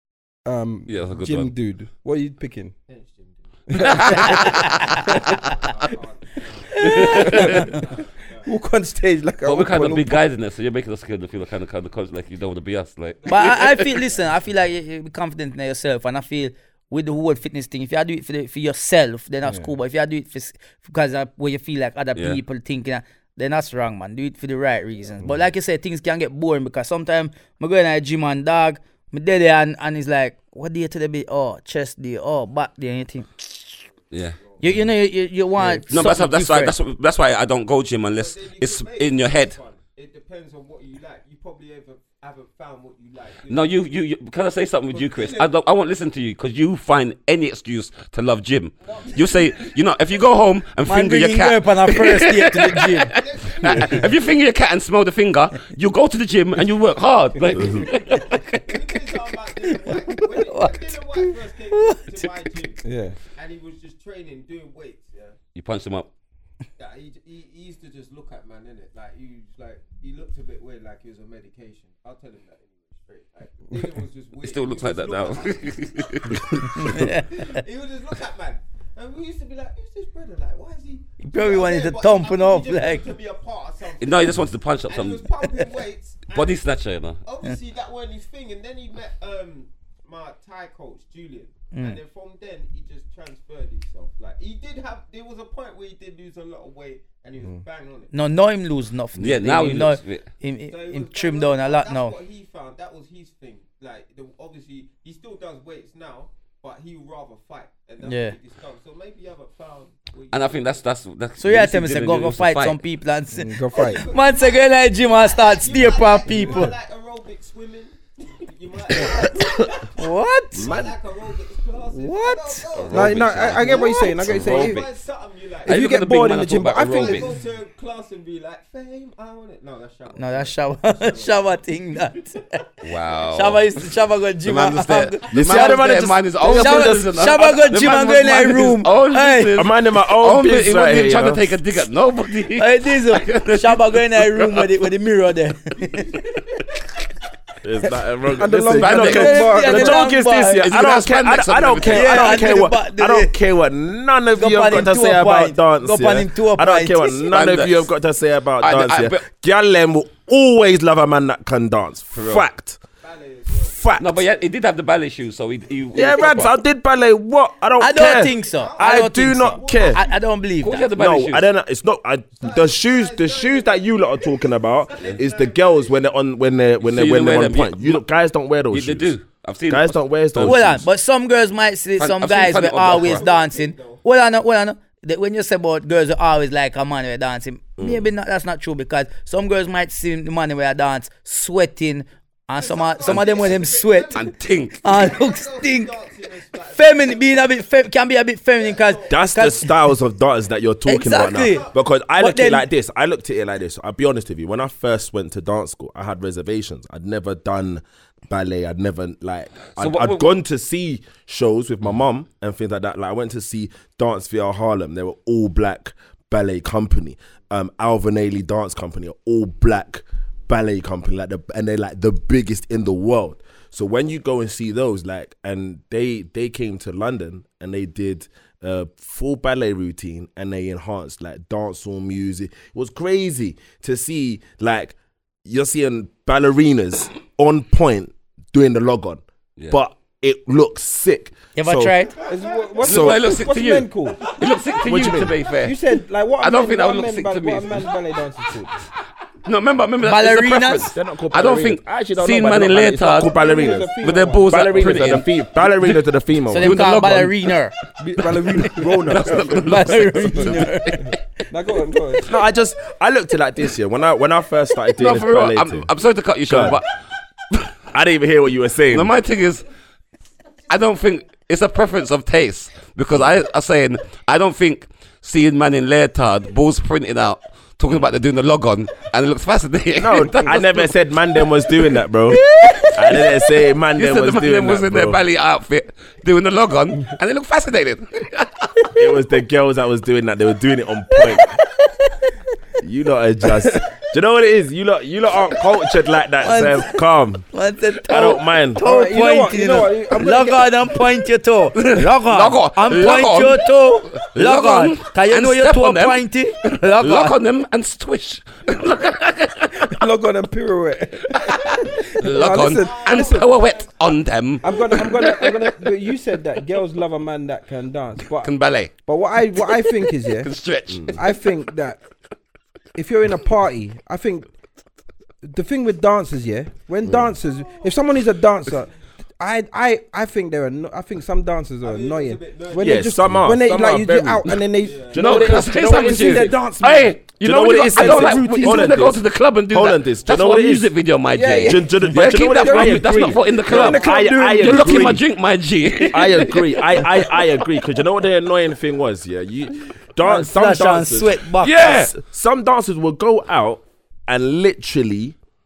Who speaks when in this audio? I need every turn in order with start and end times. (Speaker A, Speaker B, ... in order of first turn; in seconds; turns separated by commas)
Speaker A: 0.5-2.7, Speaker B: 0.9-1.5, Speaker C: 2.9-8.5, Speaker A: 3.7-4.5, Speaker B: 3.8-4.7, Speaker D: 4.3-5.0, Speaker D: 6.8-7.8, Speaker B: 6.8-7.7, Speaker A: 6.9-7.8, Speaker A: 8.4-10.2, Speaker B: 9.4-13.8, Speaker C: 13.2-14.3, Speaker D: 13.3-33.8, Speaker A: 19.5-19.7, Speaker C: 34.1-34.7, Speaker B: 34.1-34.4, Speaker D: 34.6-36.8, Speaker B: 35.9-39.6, Speaker C: 38.2-43.8, Speaker B: 43.5-58.4, Speaker C: 44.9-45.5, Speaker C: 48.8-49.7, Speaker D: 50.9-53.1, Speaker C: 53.1-54.2, Speaker D: 58.2-58.6, Speaker C: 58.6-65.4, Speaker D: 59.7-62.3, Speaker A: 62.8-63.2, Speaker B: 65.5-66.1, Speaker C: 66.8-86.6, Speaker B: 74.4-76.9, Speaker D: 76.7-77.4, Speaker D: 81.2-83.1, Speaker B: 84.0-85.3, Speaker B: 86.3-87.2, Speaker C: 87.2-98.1, Speaker D: 91.7-92.0, Speaker D: 98.1-102.2, Speaker B: 99.2-100.3, Speaker C: 100.7-110.8, Speaker D: 108.0-108.4, Speaker B: 110.3-112.8, Speaker D: 111.4-116.7, Speaker A: 113.3-114.1, Speaker C: 113.7-119.9, Speaker D: 119.8-120.8, Speaker E: 120.5-120.9, Speaker C: 120.6-125.9, Speaker D: 121.9-122.6, Speaker B: 122.7-125.0, Speaker A: 122.9-124.8, Speaker B: 125.7-127.3, Speaker A: 125.7-127.4, Speaker C: 126.8-131.6, Speaker D: 130.2-132.6, Speaker B: 132.8-133.6, Speaker D: 133.3-135.9, Speaker B: 134.4-144.7, Speaker E: 135.3-137.7, Speaker D: 136.5-139.6, Speaker E: 139.6-141.5, Speaker D: 142.6-146.1, Speaker C: 145.9-146.7, Speaker E: 147.6-162.8, Speaker A: 148.3-150.1, Speaker B: 148.7-149.6, Speaker D: 149.1-150.7, Speaker B: 150.6-152.6, Speaker D: 151.8-153.3, Speaker D: 154.3-157.2, Speaker B: 157.3-157.9, Speaker B: 158.6-159.3, Speaker B: 162.1-162.4, Speaker C: 163.0-163.9, Speaker E: 163.6-164.2, Speaker B: 164.0-166.5, Speaker E: 165.9-170.0, Speaker D: 167.8-170.9, Speaker C: 168.3-170.2, Speaker B: 170.6-171.4, Speaker E: 170.9-179.2, Speaker C: 172.4-176.1, Speaker B: 176.8-178.0, Speaker B: 178.7-180.6, Speaker E: 179.7-180.9, Speaker D: 180.4-194.2, Speaker B: 182.0-183.2, Speaker C: 182.8-184.0, Speaker E: 187.8-188.0, Speaker C: 192.6-197.5, Speaker B: 193.1-193.4, Speaker B: 194.2-194.8, Speaker D: 194.8-195.9, Speaker D: 196.8-199.7, Speaker C: 198.6-199.3, Speaker E: 199.1-242.0, Speaker D: 200.9-201.7, Speaker C: 201.1-201.9, Speaker D: 202.2-202.6, Speaker B: 209.8-210.3, Speaker D: 241.6-242.2, Speaker C: 242.2-243.1, Speaker A: 242.2-244.3, Speaker B: 242.8-245.8, Speaker E: 242.9-243.2, Speaker C: 244.2-244.7, Speaker E: 244.9-245.4, Speaker A: 245.6-248.7, Speaker B: 246.4-247.9, Speaker B: 249.4-253.4, Speaker D: 250.0-250.9, Speaker E: 250.9-256.9, Speaker A: 253.2-255.2, Speaker B: 254.0-255.9, Speaker D: 256.5-257.7, Speaker B: 256.6-257.5, Speaker A: 258.0-259.5, Speaker E: 258.8-259.7, Speaker B: 259.1-261.0, Speaker D: 259.6-261.2, Speaker A: 261.5-262.3, Speaker E: 262.2-265.9, Speaker B: 265.0-266.9, Speaker E: 266.5-266.8, Speaker E: 267.9-269.1, Speaker B: 268.9-269.7, Speaker B: 270.7-280.9, Speaker E: 280.0-285.2, Speaker D: 282.4-283.0, Speaker B: 282.6-283.2, Speaker B: 283.9-289.0, Speaker E: 289.0-291.6, Speaker D: 291.1-292.4, Speaker E: 292.8-297.4, Speaker D: 296.4-307.4, Speaker E: 298.1-298.8, Speaker A: 298.8-300.8, Speaker B: 301.8-306.2, Speaker B: 307.0-310.0, Speaker A: 309.8-313.4, Speaker B: 311.3-315.8, Speaker C: 311.7-314.1, Speaker A: 314.6-318.5, Speaker C: 314.7-315.0, Speaker B: 318.4-318.9, Speaker A: 319.1-320.5, Speaker B: 319.6-321.3, Speaker A: 321.1-322.0, Speaker A: 323.0-324.5, Speaker A: 325.4-337.2, Speaker E: 327.1-327.3, Speaker C: 327.4-327.9, Speaker C: 331.8-333.3, Speaker E: 332.8-334.6, Speaker C: 334.8-335.6, Speaker E: 335.1-336.6, Speaker B: 335.1-347.7, Speaker E: 337.4-340.9, Speaker A: 337.9-338.9, Speaker A: 341.3-345.2, Speaker E: 341.6-345.2, Speaker E: 346.1-355.4, Speaker D: 350.2-351.8, Speaker B: 351.6-352.1